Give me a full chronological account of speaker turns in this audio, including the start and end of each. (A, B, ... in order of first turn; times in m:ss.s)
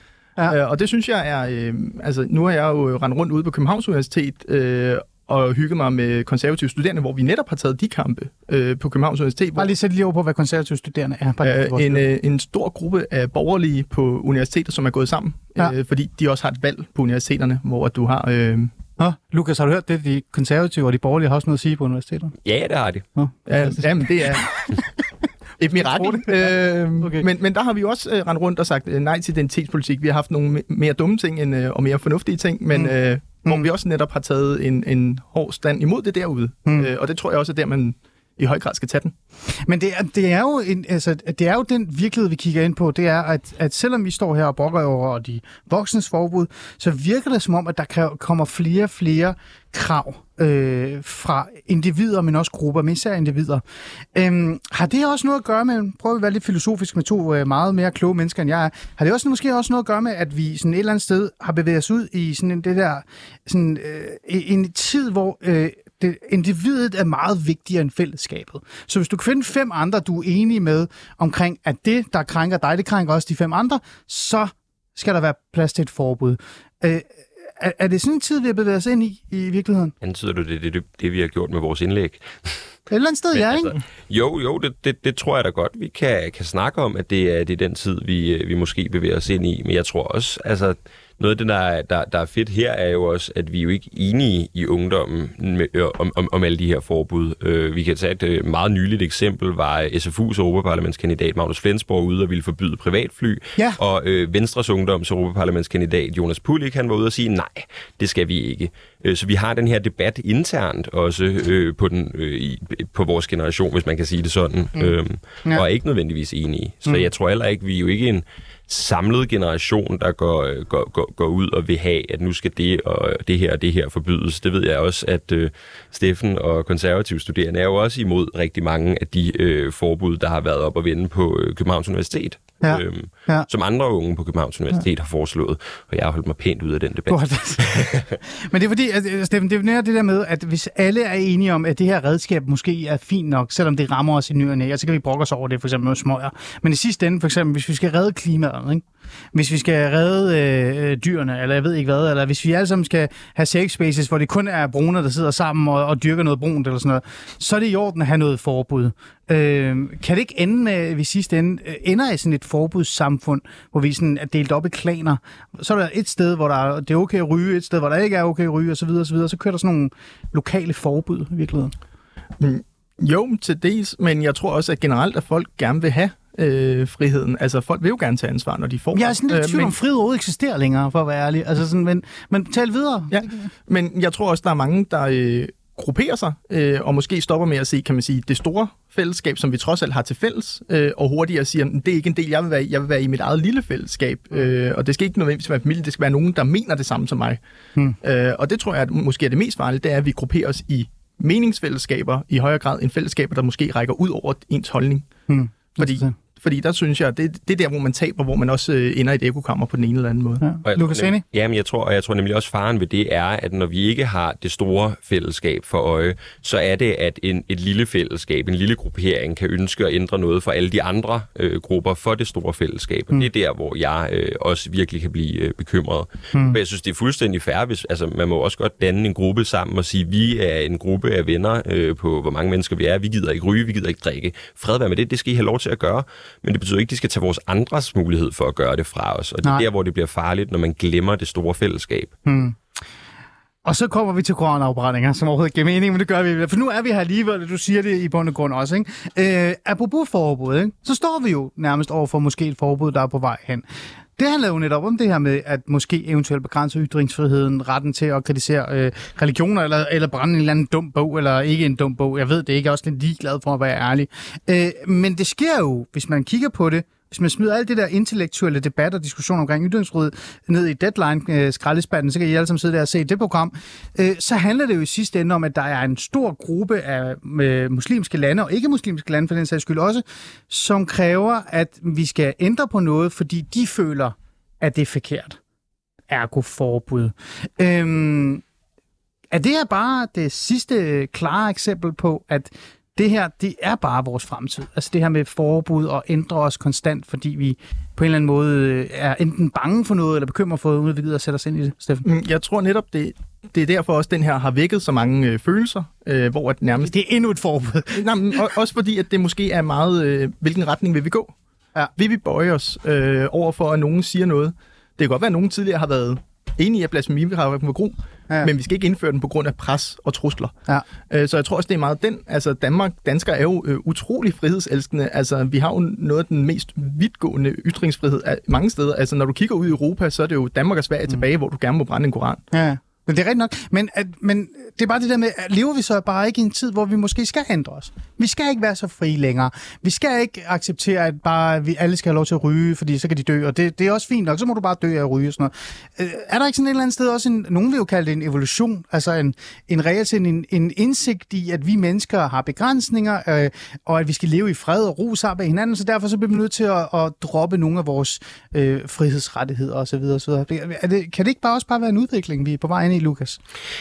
0:00.4-0:09.7 A
0:09.6-0:12.0 B
0:11.4-0:18.7 A
0:19.0-0:22.3 B
0:22.4-0:23.0 C
0:23.2-0:23.8 B
0:23.5-0:24.5 A
0:25.6-0:39.1 A
0:26.0-0:27.2 B
0:39.6-0:53.6 B
0:54.1-1:17.0 B
1:17.6-1:19.9 B
1:20.0-1:22.7 C
1:22.9-1:23.8 B
1:23.3-2:18.2 C
2:12.6-2:13.5 B
2:17.1-2:51.7 B
2:52.4-2:59.7 A
2:58.9-3:03.3 B
3:03.1-3:17.4 A
3:18.0-3:25.1 A
3:25.3-3:26.1 B
3:25.8-3:30.4 A
3:30.4-3:31.2 B
3:30.6-4:02.1 C
3:46.3-3:46.6 B
4:02.2-4:02.6 B
4:03.6-4:13.6 B
4:14.2-4:45.4 B
4:46.1-4:48.4 B
4:49.3-5:02.0 B
5:02.0-5:06.9 A
5:06.8-5:08.5 B
5:07.9-5:11.3 A
5:12.0-5:20.5 A
5:21.1-5:32.4 A
5:32.5-6:03.4 B